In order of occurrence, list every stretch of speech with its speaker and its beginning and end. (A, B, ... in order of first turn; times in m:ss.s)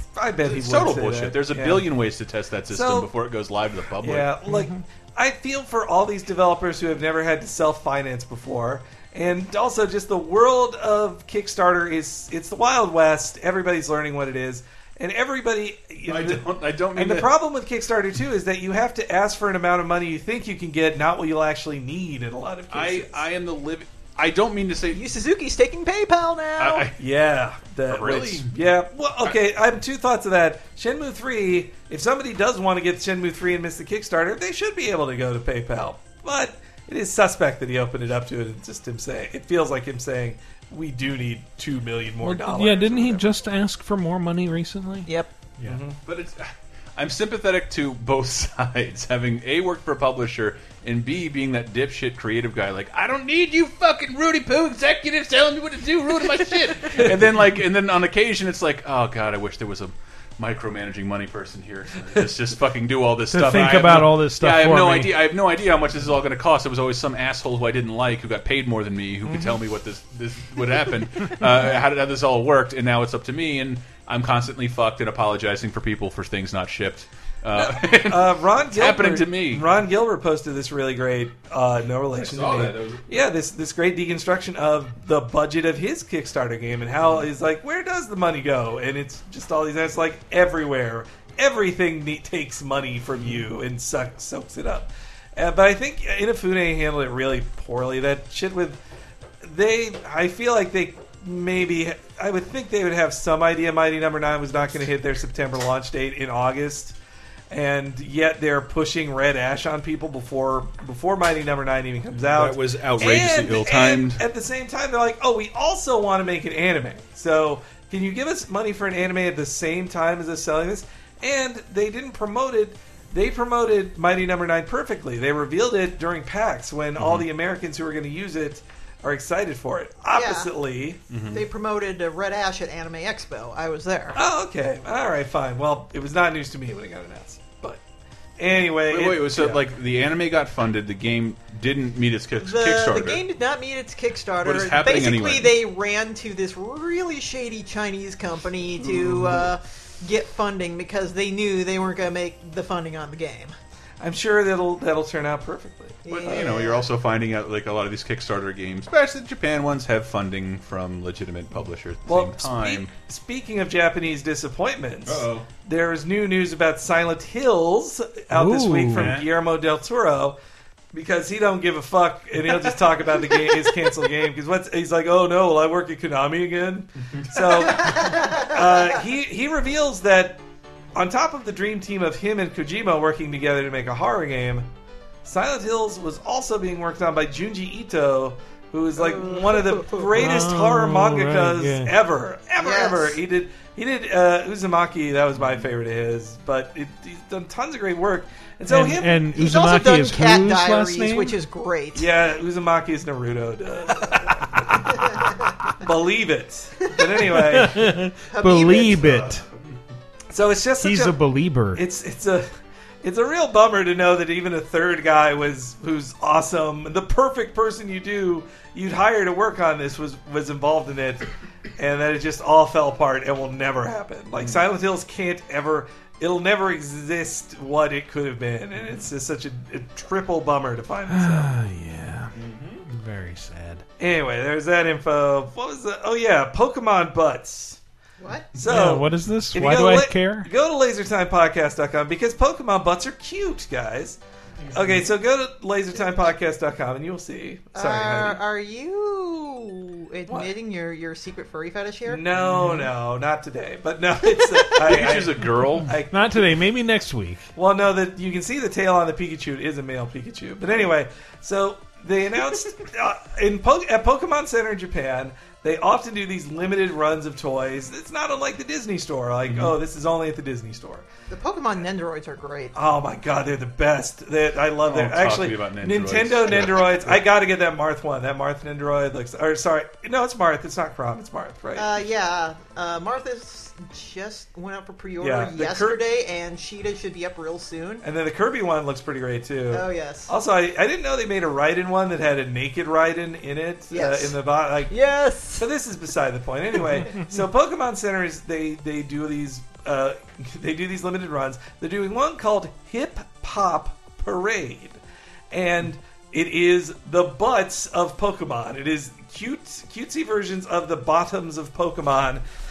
0:00.1-0:01.9 A
0:00.4-0:04.3 B
0:02.7-0:03.1 A
0:04.0-0:23.2 A
0:04.5-0:04.8 C
0:16.0-0:17.3 B
0:22.7-0:25.0 B
0:24.9-0:26.9 D
0:26.6-0:27.0 B
0:27.0-0:43.3 A
0:27.9-0:28.5 B
0:42.2-0:45.8 C
0:45.6-0:46.0 A
0:46.0-1:19.7 B
1:03.3-1:05.2 C
1:17.5-1:38.8 A
1:22.1-1:23.0 B
1:39.4-1:46.9 A
1:47.5-2:11.0 A
1:52.1-1:54.2 B
2:07.0-2:07.2 B
2:10.1-2:10.5 D
2:11.1-2:11.4 B
2:11.3-2:14.2 D
2:14.1-2:17.8 A
2:18.4-2:19.6 A
2:18.9-2:23.2 B
2:22.4-2:33.5 D
2:24.4-2:25.6 B
2:28.8-2:29.5 A
2:34.0-2:36.5 A
2:36.0-2:36.8 D
2:36.2-2:42.9 B
2:42.0-2:50.4 A
2:45.0-2:45.5 B
2:48.3-2:49.1 C
2:48.9-2:49.3 B
2:50.9-3:00.4 A
2:53.2-2:53.9 D
2:57.0-2:58.0 B
2:57.6-2:59.0 D
3:00.9-3:04.7 A
3:05.2-3:19.2 A
3:09.0-3:10.2 D
3:10.2-3:11.9 C
3:12.6-3:13.2 D
3:18.7-3:21.4 C
3:19.3-3:22.1 D
3:21.9-3:25.2 A
3:25.8-3:27.9 A
3:27.5-3:29.4 C
3:28.3-3:29.2 D
3:29.0-3:29.7 B
3:30.3-3:31.2 A
3:30.8-3:31.8 C
3:31.7-3:32.5 A
3:33.0-3:41.3 A
3:41.8-3:51.5 A
3:51.1-3:52.3 C
3:52.3-3:52.8 B
3:52.9-3:53.8 C
3:54.0-3:57.8 A
3:58.2-3:58.5 D
3:58.5-4:04.2 A
3:58.6-4:00.5 C
4:04.7-4:08.4 A
4:07.7-4:12.2 D
4:12.0-4:16.4 A
4:14.8-4:15.9 B
4:16.1-4:17.4 C
4:17.6-4:31.0 A
4:29.4-4:29.8 B
4:31.3-4:32.7 D
4:32.7-4:42.0 A
4:34.8-4:37.2 B
4:41.8-4:48.0 D
4:45.2-4:46.0 A
4:48.0-4:54.9 A
4:49.7-4:50.3 D
4:53.9-4:54.4 D
4:54.9-4:55.7 D
4:55.6-5:05.0 A
5:05.5-5:12.4 A